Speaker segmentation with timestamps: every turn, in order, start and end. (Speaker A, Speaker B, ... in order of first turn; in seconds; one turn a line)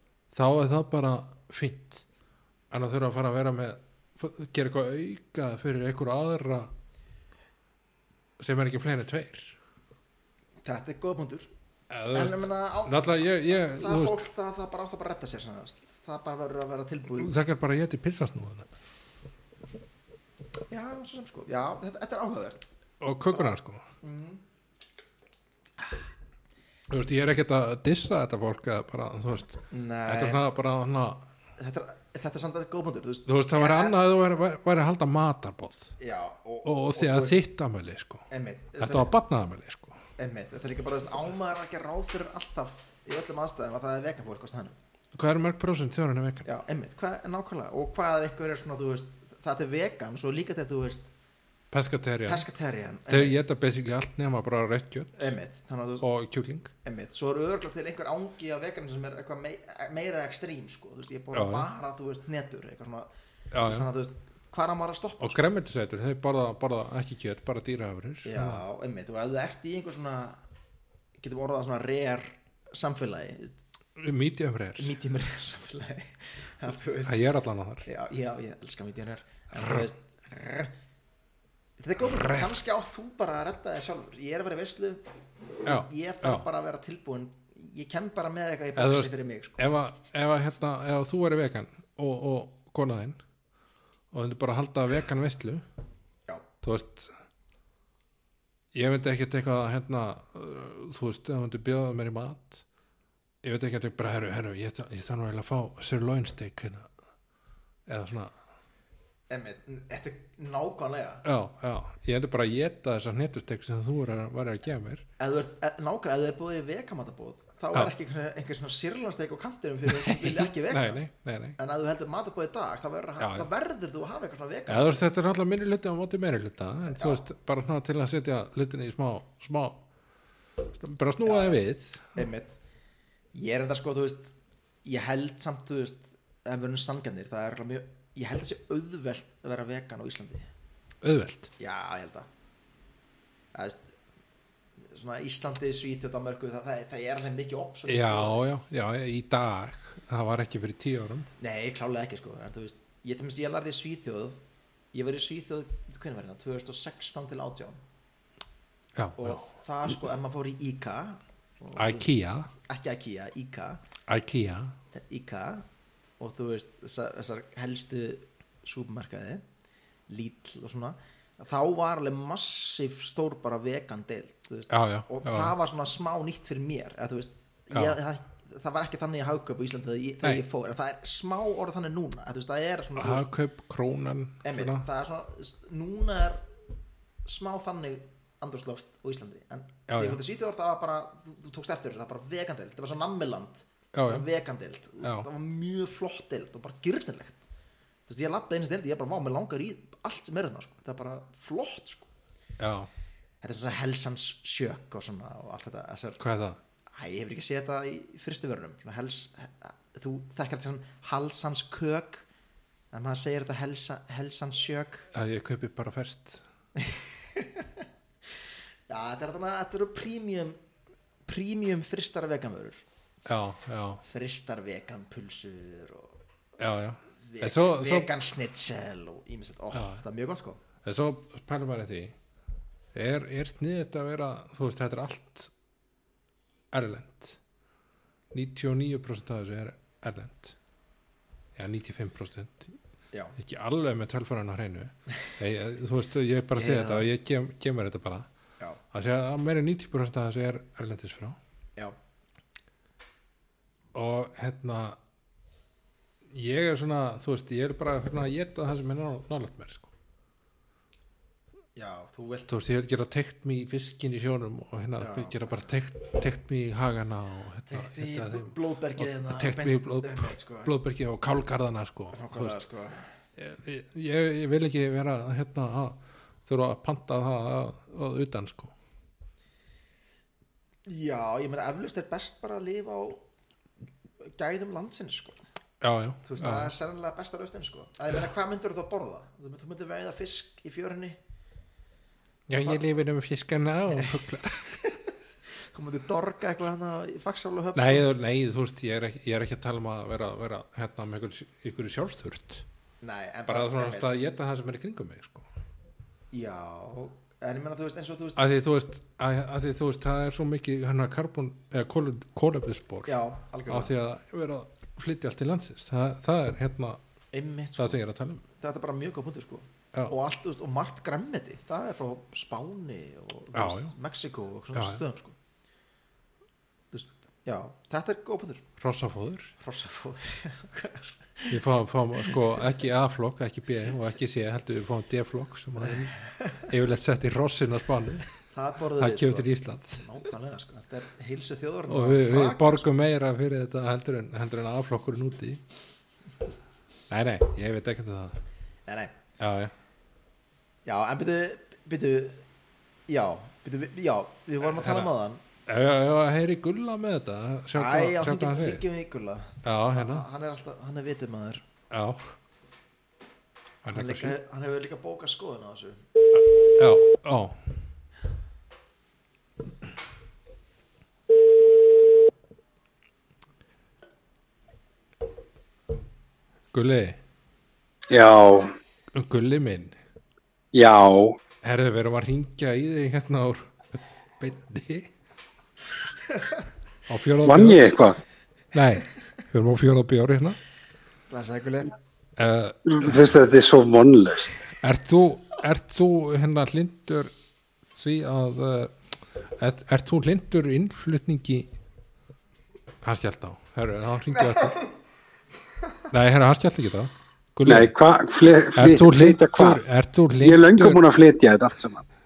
Speaker A: 0.3-2.0
Speaker A: 2.7-6.7
Speaker A: 8.4-9.6
Speaker B: 10.6-11.5
Speaker A: 11.9-14.3
Speaker B: 12.1-17.3
Speaker A: 17.2-18.7
Speaker B: 20.7-22.7
Speaker A: 23.0-23.8
Speaker B: 23.3-24.4
Speaker A: 26.9-31.3
Speaker B: 29.7-30.4
Speaker B: 31.6-34.0
Speaker A: 33.2-35.9
Speaker B: 36.0-37.4
Speaker A: 36.6-38.2
Speaker B: 38.3-39.1
Speaker A: 38.8-40.0
Speaker B: 40.2-44.8
Speaker A: 45.1-46.5
Speaker B: 46.4-51.1
Speaker A: 51.7-52.5
Speaker B: 52.2-53.4
Speaker A: 53.1-55.3
Speaker B: 55.1-56.1
Speaker A: 56.0-56.7
Speaker B: 56.8-63.1
Speaker A: 61.3-61.7
Speaker A: 63.5-63.9
Speaker B: 63.6-65.4
Speaker A: 65.2-68.6
Speaker B: 68.2-70.4
Speaker B: 71.2-73.6
Speaker A: 74.0-74.9
Speaker B: 74.8-77.2
Speaker A: 77.0-77.9
Speaker B: 77.8-80.7
Speaker B: 81.8-85.0
Speaker A: 82.2-82.5
Speaker B: 85.6-89.7
Speaker A: 85.7-86.5
Speaker A: 88.8-93.2
Speaker A: 94.1-95.6
Speaker A: 96.6-97.1
Speaker A: 98.7-102.6
Speaker A: 103.4-106.9
Speaker A: 107.9-108.3
Speaker B: 109.3-111.2
Speaker A: 111.2-115.0
Speaker B: 115.2-121.0
Speaker A: 119.9-121.6
Speaker B: 121.6-125.0
Speaker A: 123.2-123.5
Speaker A: 124.7-129.8
Speaker B: 126.8-127.2
Speaker A: 130.7-132.2
Speaker B: 131.2-131.6
Speaker B: 132.1-132.6
Speaker B: 133.3-140.5
Speaker A: 141.0-141.5
Speaker B: 141.6-142.3
Speaker B: 143.5-143.9
Speaker B: 144.8-148.4
Speaker A: 147.9-151.3
Speaker B: 151.4-157.8
Speaker A: 158.9-159.4
Speaker B: 159.2-163.8
Speaker A: 161.8-162.5
Speaker A: 164.1-164.7
Speaker B: 164.9-165.7
Speaker B: 166.2-169.4
Speaker B: 170.1-183.3
Speaker A: 174.7-175.5
Speaker A: 177.7-178.0
Speaker A: 183.0-184.8
Speaker B: 184.4-186.4
Speaker B: 187.2-197.4
Speaker A: 189.9-190.2
Speaker A: 193.9-194.2
Speaker A: 195.0-195.3
Speaker B: 198.1-202.1
Speaker A: 202.6-202.9
Speaker B: 203.4-206.2
Speaker A: 206.2-206.6
Speaker B: 206.9-212.2
Speaker B: 212.9-215.1
Speaker A: 215.1-216.4
Speaker B: 216.8-217.8
Speaker B: 218.9-220.6
Speaker B: 221.2-222.8
Speaker A: 223.2-224.0
Speaker B: 224.0-226.2
Speaker A: 226.6-228.1
Speaker B: 227.2-230.6
Speaker A: 229.7-230.0
Speaker A: 230.8-232.1
Speaker A: 232.9-235.5
Speaker A: 236.7-237.4
Speaker A: 238.3-240.6
Speaker A: 241.5-242.8
Speaker A: 243.4-248.3
Speaker B: 246.5-247.1
Speaker A: 248.9-251.4
Speaker A: 253.9-255.0
Speaker A: 256.3-259.9
Speaker B: 261.8-262.5
Speaker A: 262.5-272.6
Speaker B: 265.0-265.5
Speaker B: 267.7-270.7
Speaker B: 272.1-273.1
Speaker A: 273.4-278.7
Speaker B: 280.9-283.2
Speaker B: 284.2-285.4
Speaker A: 285.8-286.7
Speaker B: 286.2-291.2
Speaker A: 292.5-294.8
Speaker B: 295.7-298.1
Speaker A: 297.7-302.6
Speaker B: 303.0-304.1
Speaker A: 303.5-305.5
Speaker B: 306.3-308.4
Speaker A: 308.4-313.1
Speaker B: 313.1-313.9
Speaker A: 313.7-317.0
Speaker B: 317.3-318.0
Speaker A: 317.8-318.4
Speaker B: 318.5-325.4
Speaker A: 323.5-323.9
Speaker A: 324.7-325.0
Speaker B: 326.9-328.6
Speaker A: 328.8-329.5
Speaker B: 329.6-331.6
Speaker A: 331.5-338.3
Speaker B: 332.2-332.6
Speaker B: 338.5-342.9
Speaker A: 339.0-340.1
Speaker A: 341.9-345.6
Speaker A: 347.1-348.4
Speaker B: 348.9-349.1
Speaker A: 349.4-349.7
Speaker B: 350.8-352.4
Speaker B: 353.1-355.4
Speaker A: 354.6-355.1
Speaker A: 355.6-358.8
Speaker B: 357.7-361.6
Speaker A: 359.6-360.2
Speaker A: 361.9-362.3
Speaker A: 363.8-364.4
Speaker B: 363.9-366.0
Speaker A: 366.3-367.6
Speaker A: 376.7-377.2
Speaker C: 378.1-378.7
Speaker A: 379.1-379.9
Speaker C: 380.7-381.4
Speaker A: 381.6-383.7
Speaker A: 384.4-385.1
Speaker A: 387.1-387.9
Speaker C: 387.4-388.2
Speaker A: 388.7-390.6
Speaker B: 391.3-391.9
Speaker A: 392.4-393.3
Speaker C: 392.9-394.6
Speaker A: 394.8-397.3
Speaker A: 397.9-401.7
Speaker A: 403.0-404.8
Speaker A: 406.1-407.9
Speaker C: 407.6-409.8
Speaker A: 408.7-411.0
Speaker C: 410.4-412.0